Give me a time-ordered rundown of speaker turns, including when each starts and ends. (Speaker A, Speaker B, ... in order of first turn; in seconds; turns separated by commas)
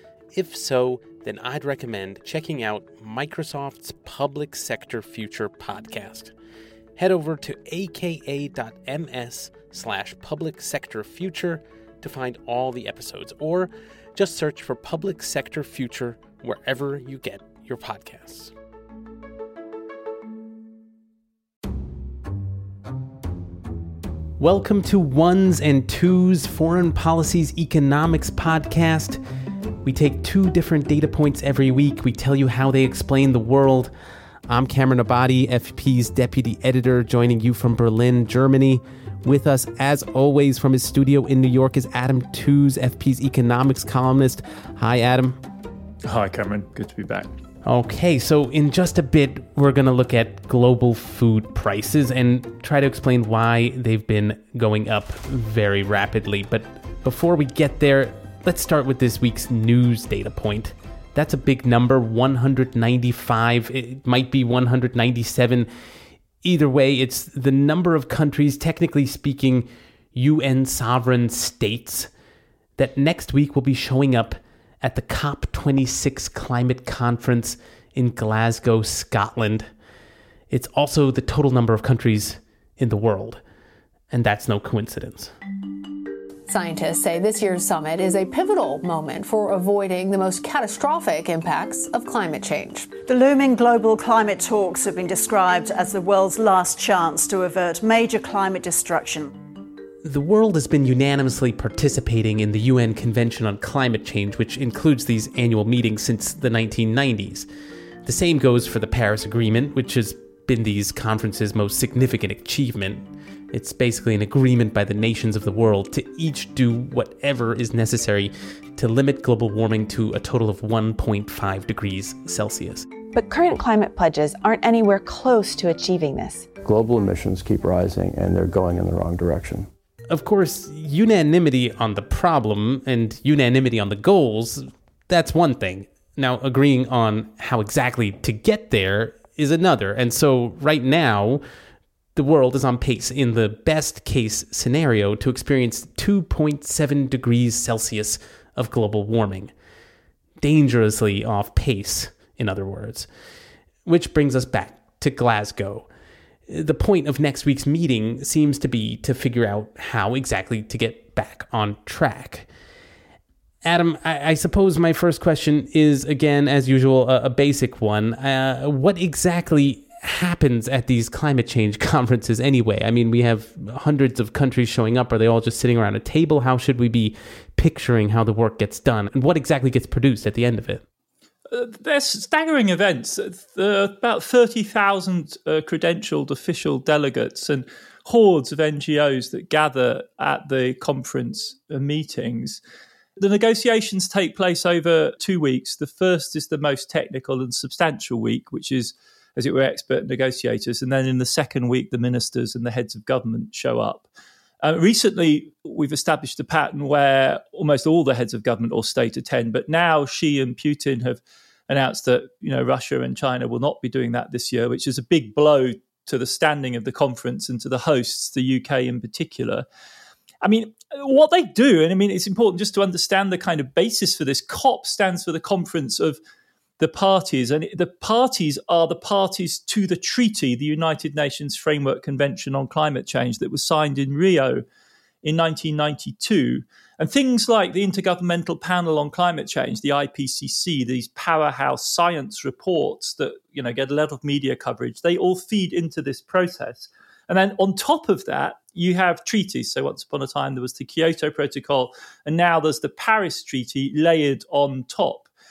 Speaker A: 0.3-6.3, Speaker A: 7.0-18.5, Speaker A: 24.4-29.2, Speaker A: 29.8-33.9, Speaker A: 34.5-45.4, Speaker B: 46.0-47.3, Speaker A: 47.6-65.7, Speaker A: 66.4-72.1, Speaker A: 72.8-79.7, Speaker A: 80.5-83.4, Speaker A: 84.1-85.3, Speaker C: 86.5-93.0, Speaker D: 93.0-99.3, Speaker A: 100.0-107.5, Speaker A: 108.0-122.9, Speaker E: 123.1-126.5, Speaker F: 126.6-129.7, Speaker A: 130.1-141.4, Speaker A: 142.1-149.5, Speaker A: 150.4-153.1, Speaker A: 153.8-155.9, Speaker A: 156.5-162.5, Speaker A: 163.6-180.8, Speaker B: 181.5-192.6, Speaker B: 193.2-204.1, Speaker B: 204.6-219.6, Speaker B: 220.4-226.2, Speaker B: 226.8-234.6, Speaker B: 235.2-255.3